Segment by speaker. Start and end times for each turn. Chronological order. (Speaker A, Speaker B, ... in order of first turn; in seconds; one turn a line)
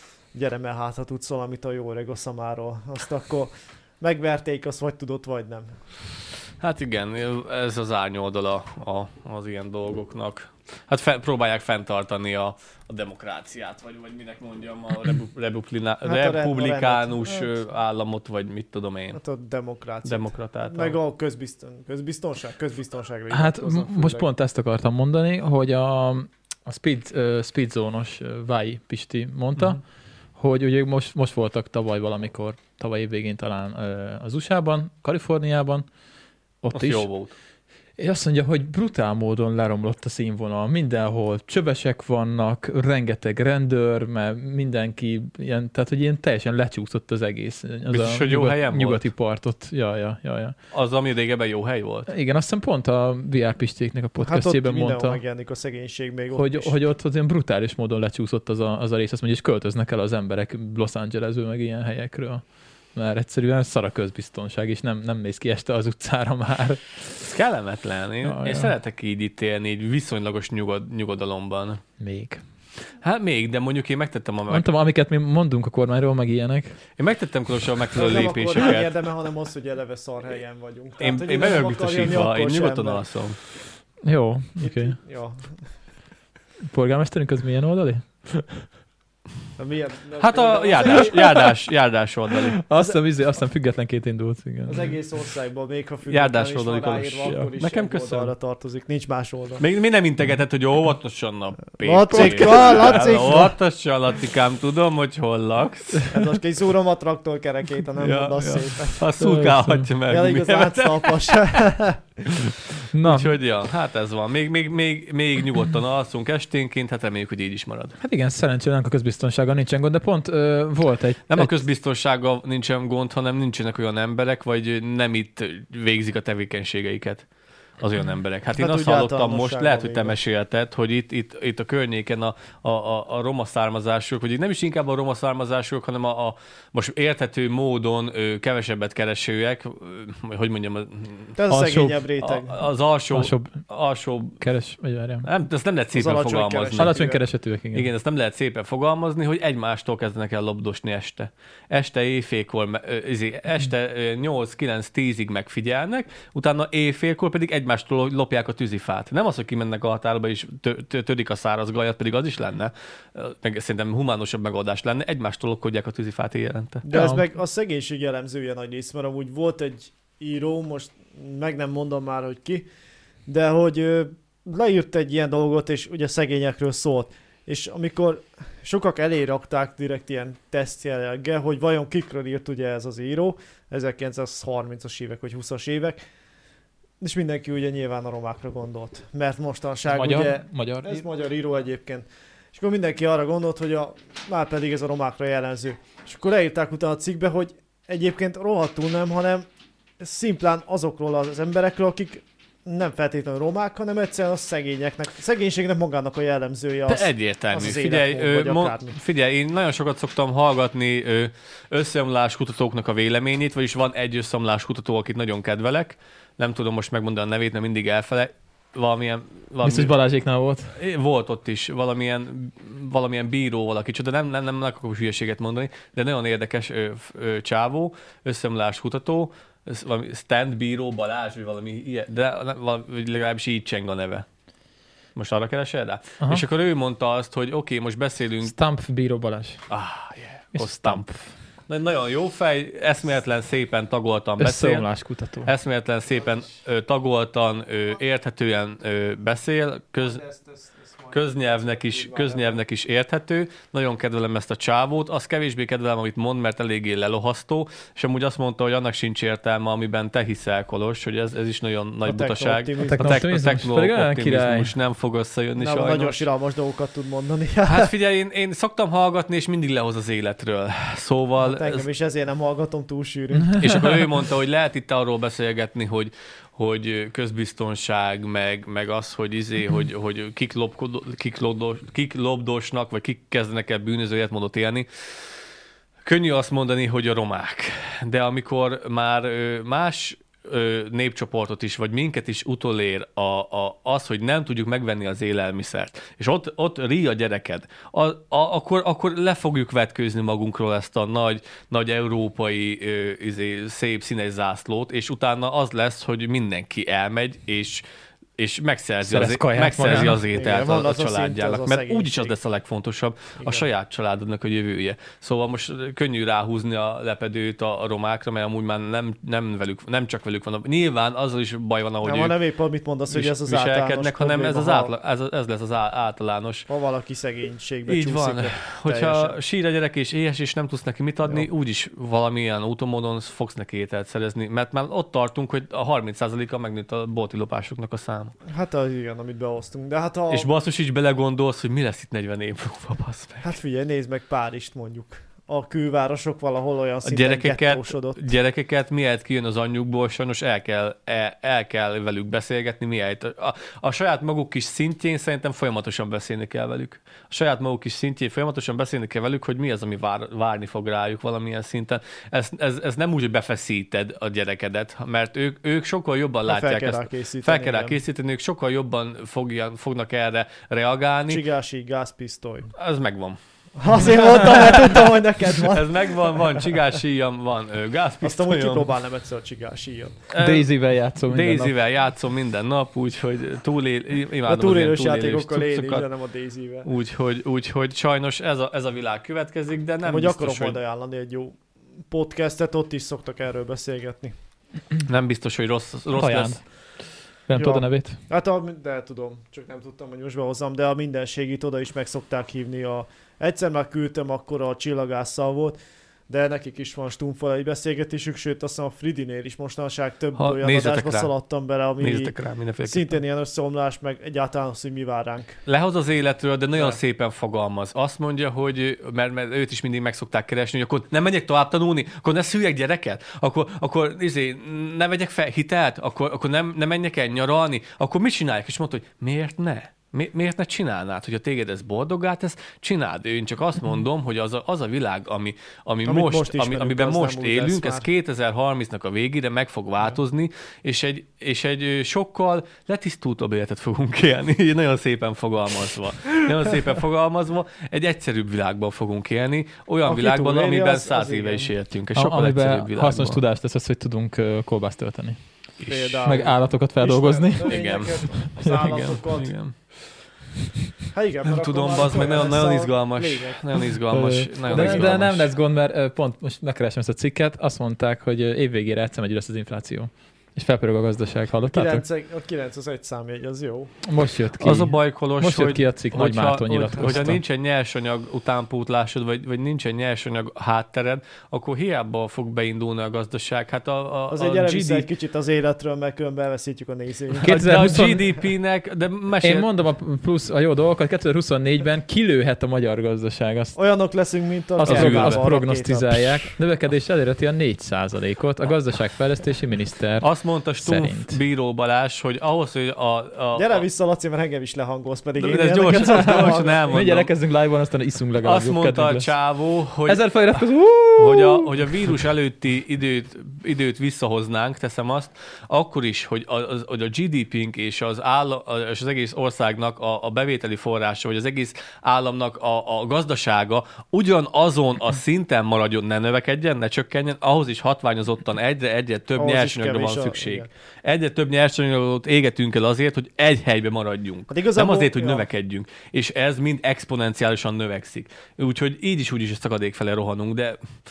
Speaker A: 0.3-5.8
Speaker B: 6.6-19.2
Speaker A: 16.0-17.5
Speaker A: 19.1-24.3
Speaker B: 20.0-20.9
Speaker C: 23.3-29.8
Speaker C: 30.4-35.9
Speaker C: 36.6-37.1
Speaker B: 36.7-37.3
Speaker C: 38.0-50.6
Speaker B: 47.9-49.0
Speaker B: 50.7-52.1
Speaker C: 52.1-55.2
Speaker A: 54.2-56.8
Speaker C: 56.3-62.4
Speaker C: 63.0-67.2
Speaker B: 67.2-71.8
Speaker C: 68.2-68.7
Speaker C: 72.0-72.4
Speaker B: 73.0-74.7
Speaker C: 74.5-76.8
Speaker B: 77.0-78.9
Speaker A: 77.9-83.0
Speaker B: 81.0-83.4
Speaker C: 84.0-85.0
Speaker A: 84.6-85.5
Speaker C: 86.7-88.7
Speaker A: 89.6-91.5
Speaker B: 90.2-92.6
Speaker C: 92.6-95.0
Speaker A: 94.7-99.6
Speaker B: 96.1-98.3
Speaker C: 97.3-97.5
Speaker B: 99.6-106.2
Speaker A: 101.8-103.5
Speaker A: 106.1-109.0
Speaker B: 108.0-111.6
Speaker C: 109.2-109.9
Speaker A: 110.1-112.5
Speaker C: 112.9-113.3
Speaker B: 113.0-118.0
Speaker C: 118.0-121.6
Speaker B: 121.3-127.3
Speaker B: 127.8-141.3
Speaker A: 128.5-130.2
Speaker A: 141.4-142.6
Speaker C: 141.5-142.1
Speaker B: 142.2-144.4
Speaker C: 143.1-143.6
Speaker C: 144.4-145.3
Speaker B: 145.2-147.0
Speaker A: 145.9-147.2
Speaker C: 146.8-147.9
Speaker B: 147.7-166.8
Speaker A: 166.8-172.7
Speaker C: 166.9-167.2
Speaker A: 173.3-186.0
Speaker A: 187.0-199.5
Speaker C: 189.9-191.0
Speaker A: 200.0-208.9
Speaker B: 206.9-219.9
Speaker C: 219.6-220.7
Speaker B: 220.8-234.2
Speaker B: 235.2-238.5
Speaker C: 238.4-239.6
Speaker B: 239.7-241.1
Speaker C: 240.6-241.3
Speaker B: 241.7-244.9
Speaker C: 244.4-245.5
Speaker B: 245.4-250.2
Speaker A: 250.0-252.6
Speaker B: 251.1-266.2
Speaker A: 262.1-263.3
Speaker C: 262.9-264.7
Speaker A: 265.6-267.9
Speaker B: 267.7-271.9
Speaker A: 271.4-273.7
Speaker C: 273.4-273.9
Speaker B: 273.6-284.9
Speaker B: 286.1-307.8
Speaker B: 308.4-322.4
Speaker C: 309.0-310.2
Speaker A: 310.3-312.3
Speaker A: 313.4-313.7
Speaker A: 322.0-324.9
Speaker B: 323.1-326.7
Speaker A: 326.7-329.4
Speaker B: 327.9-338.4
Speaker A: 338.4-340.5
Speaker B: 340.3-343.5
Speaker A: 343.4-348.2
Speaker B: 347.1-371.4
Speaker A: 366.5-368.0
Speaker A: 371.3-372.7
Speaker B: 372.8-373.4
Speaker A: 373.8-376.7
Speaker B: 373.9-378.9
Speaker A: 378.2-380.2
Speaker B: 380.3-380.7
Speaker C: 380.4-381.7
Speaker B: 381.3-386.1
Speaker A: 384.4-386.9
Speaker B: 386.9-390.8
Speaker A: 390.0-394.4
Speaker B: 395.1-396.6
Speaker C: 396.1-396.6
Speaker C: 397.5-398.2
Speaker A: 397.6-405.7
Speaker A: 406.3-415.6
Speaker B: 410.4-411.3
Speaker B: 412.0-413.1
Speaker B: 415.7-453.4
Speaker A: 436.1-438.1
Speaker A: 450.1-451.7
Speaker C: 452.1-455.4
Speaker B: 455.8-456.4
Speaker A: 455.9-459.6
Speaker C: 456.2-457.8
Speaker B: 457.6-459.7
Speaker C: 458.4-458.8
Speaker A: 461.1-463.6
Speaker B: 461.4-465.5
Speaker C: 464.1-472.0
Speaker A: 464.7-465.1
Speaker A: 471.7-473.9
Speaker C: 474.0-477.4
Speaker B: 474.6-485.1
Speaker A: 484.3-487.7
Speaker B: 487.4-489.7
Speaker C: 487.4-488.3
Speaker C: 489.4-493.8
Speaker A: 493.7-496.6
Speaker C: 494.8-500.3
Speaker B: 494.9-495.4
Speaker B: 500.2-503.8
Speaker C: 500.8-501.4
Speaker A: 503.6-506.9
Speaker B: 505.4-507.3
Speaker C: 506.0-509.3
Speaker B: 508.4-510.3
Speaker C: 510.1-511.9
Speaker B: 511.2-540.8
Speaker A: 529.4-530.7
Speaker A: 534.5-535.5